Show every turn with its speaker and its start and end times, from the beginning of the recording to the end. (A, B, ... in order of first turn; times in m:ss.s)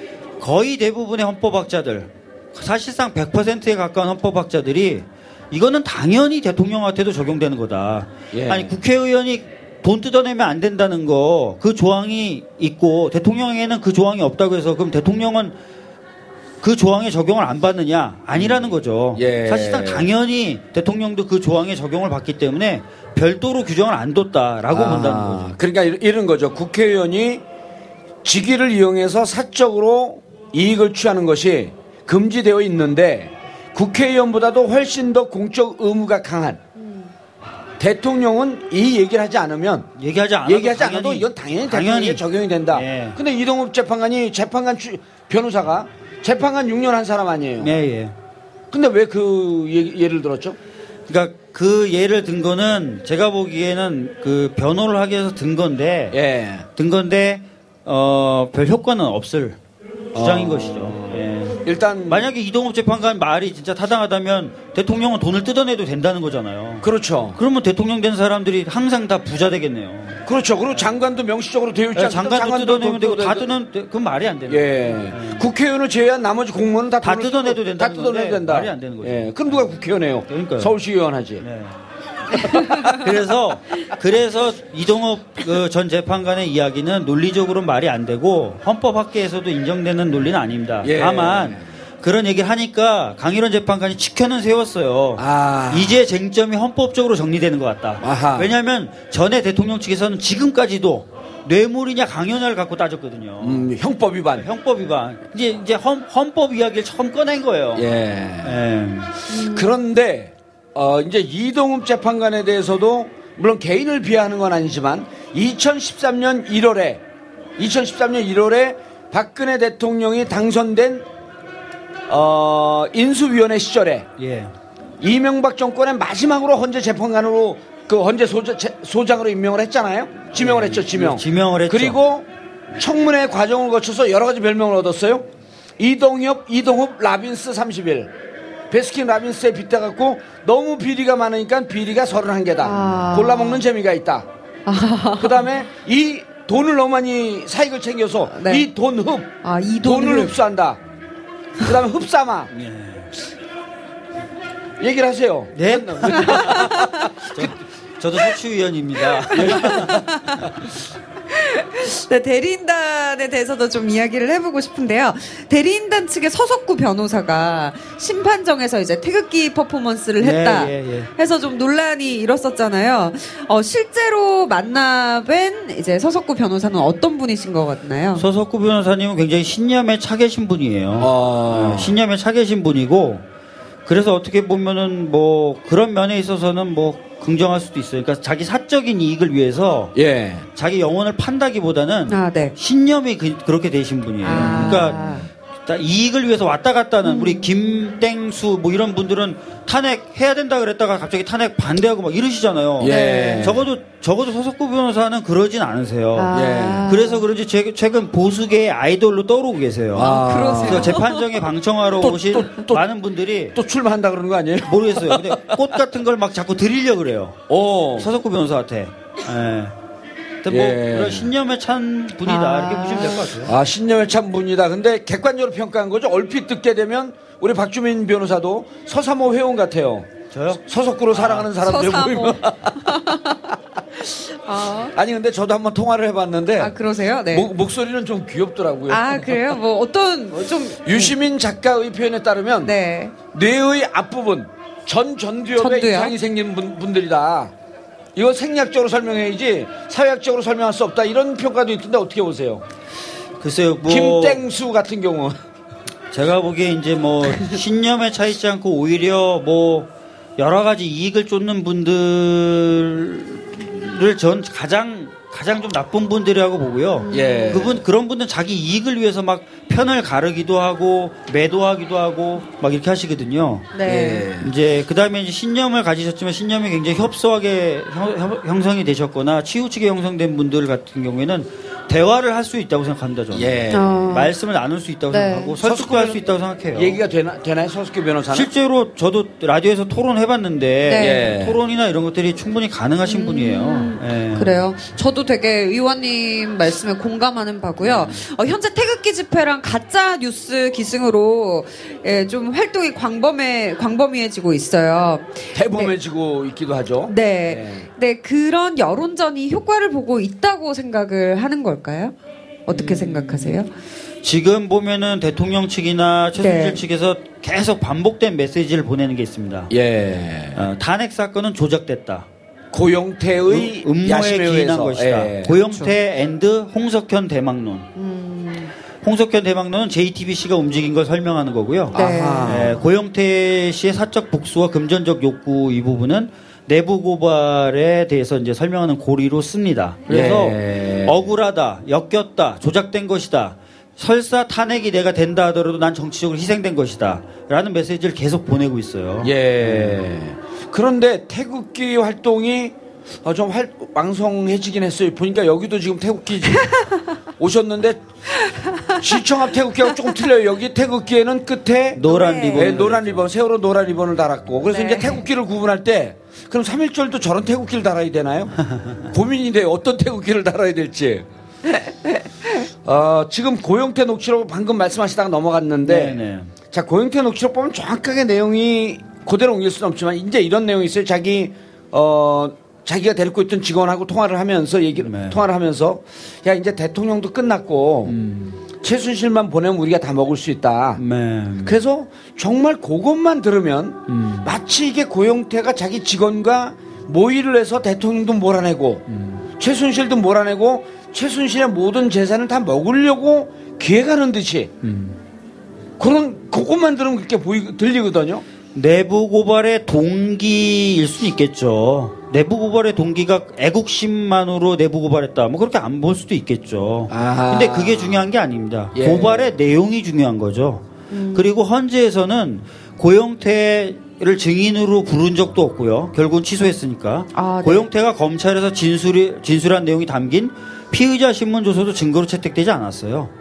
0:00.4-0:15.5 A
0:08.3-0:08.7 B
0:16.6-0:25.5 A
0:18.3-0:18.6 B
0:19.2-0:20.1 B
0:24.7-0:27.4 B
0:28.2-0:36.6 B
0:37.8-0:39.9 B
0:40.0-0:43.2 A
0:40.4-0:47.7 B
0:47.6-0:48.1 A
0:48.7-0:50.6 B
0:51.1-0:56.2 A
0:56.1-0:56.7 B
0:56.8-0:59.6 A
1:00.1-1:02.3 B
1:00.1-1:10.9 A
1:06.8-1:07.4 B
1:10.2-1:13.5 B
1:11.9-1:15.4 A
1:14.5-1:21.4 B
1:17.0-1:19.7 A
1:20.3-1:20.7 A
1:21.4-1:21.8 A
1:22.3-1:23.0 B
1:22.3-1:43.7 A
1:30.8-1:31.6 B
1:35.2-1:36.0 B
1:38.0-1:38.5 B
1:43.4-1:44.5 B
1:44.4-1:47.9 A
1:47.7-1:48.6 B
1:48.4-1:49.2 A
1:49.3-1:49.7 C
1:49.3-1:57.0 B
1:57.6-2:01.0 B
2:02.1-2:04.1 B
2:04.2-2:04.5 A
2:05.0-2:12.2 B
2:10.4-2:12.0 A
2:12.8-2:15.2 B
2:15.8-2:18.1 B
2:18.7-2:24.3 B
2:22.6-2:23.6 C
2:24.7-2:25.4 C
2:25.2-2:30.8 B
2:28.3-2:28.6 C
2:29.4-2:30.3 C
2:31.6-2:32.5 B
2:32.5-2:33.1 A
2:34.8-2:37.5 B
2:35.5-2:40.4 A
2:36.3-2:36.9 C
2:39.2-2:40.5 C
2:39.3-2:40.0 B
2:41.3-2:58.2 C
2:50.2-2:51.1 A
2:58.2-3:03.2 A
3:01.0-3:01.9 B
3:03.8-3:09.9 A
3:09.9-3:10.4 B
3:10.5-3:15.0 A
3:12.1-3:12.5 C
3:14.2-3:15.3 C
3:14.4-3:14.8 B
3:15.6-3:33.6 A
3:17.0-3:17.5 C
3:22.8-3:23.6 B
3:22.8-3:23.6 C
3:26.2-3:27.2 C
3:26.3-3:26.9 B
3:29.9-3:31.0 B
3:30.0-3:31.3 C
3:32.0-3:32.8 B
3:33.5-3:35.5 B
3:34.6-3:37.4 A
3:37.5-3:38.1 B
3:38.0-3:39.7 A
3:40.4-3:43.5 A
3:40.5-3:41.3 B
3:42.2-3:43.3 C
3:43.4-3:53.2 B
3:50.3-3:50.6 A
3:51.1-3:51.4 A
3:51.6-3:54.9 C
3:54.9-3:56.7 B
3:56.6-3:57.5 C
3:57.3-3:59.5 B
3:58.9-4:01.2 C
4:00.8-4:02.7 B
4:02.6-4:03.1 C
4:03.3-4:07.5 B
4:05.6-4:06.1 C
4:08.2-4:12.6 B
4:13.4-4:14.4 A
4:13.8-4:15.4 B
4:16.1-4:33.8 A
4:27.0-4:27.6 C
4:27.1-4:27.8 B
4:33.7-4:34.3 C
4:33.8-4:34.5 B
4:34.4-4:47.0 A
4:43.3-4:43.9 B
4:43.7-4:44.3 C
4:45.1-4:45.6 C
4:45.6-4:48.5 B
4:48.3-4:54.6 A
4:50.8-4:51.2 C
4:51.0-4:51.6 B
4:53.0-5:05.9 C
4:57.8-4:58.2 A
5:05.5-5:07.9 B
5:07.1-5:12.1 C
5:12.7-5:13.7 C
5:12.7-5:13.6 A
5:14.2-5:19.7 A
5:16.4-5:16.8 C
5:19.7-5:20.6 B
5:20.5-5:22.3 A
5:22.7-5:25.6 B
5:23.5-5:27.9 A
5:28.0-5:28.7 C
5:29.0-5:50.0 A
5:31.9-5:32.7 C
5:31.9-5:32.8 B
5:40.1-5:41.2 B
5:49.2-5:56.7 B
5:57.4-5:58.0 B
5:58.4-5:59.0 C
5:59.0-6:02.0 B
6:01.9-6:03.3 A
6:02.0-6:02.8 C
6:02.5-6:11.2 B
6:04.7-6:05.2 C
6:08.7-6:09.0 A
6:12.8-6:16.2 B
6:15.8-6:16.5 A
6:16.7-6:28.2 B
6:25.0-6:25.4 A
6:28.0-6:28.6 A
6:28.8-6:31.0 B
6:31.0-6:31.8 A
6:31.6-6:39.0 B
6:34.1-6:34.5 A
6:39.1-6:39.4 A
6:39.6-6:44.7 B
6:44.8-6:45.2 A
6:46.0-6:48.4 B
6:48.7-7:13.3 A
6:57.1-6:58.2 B
6:58.9-6:59.5 B
7:01.1-7:01.5 C
7:07.3-7:07.8 C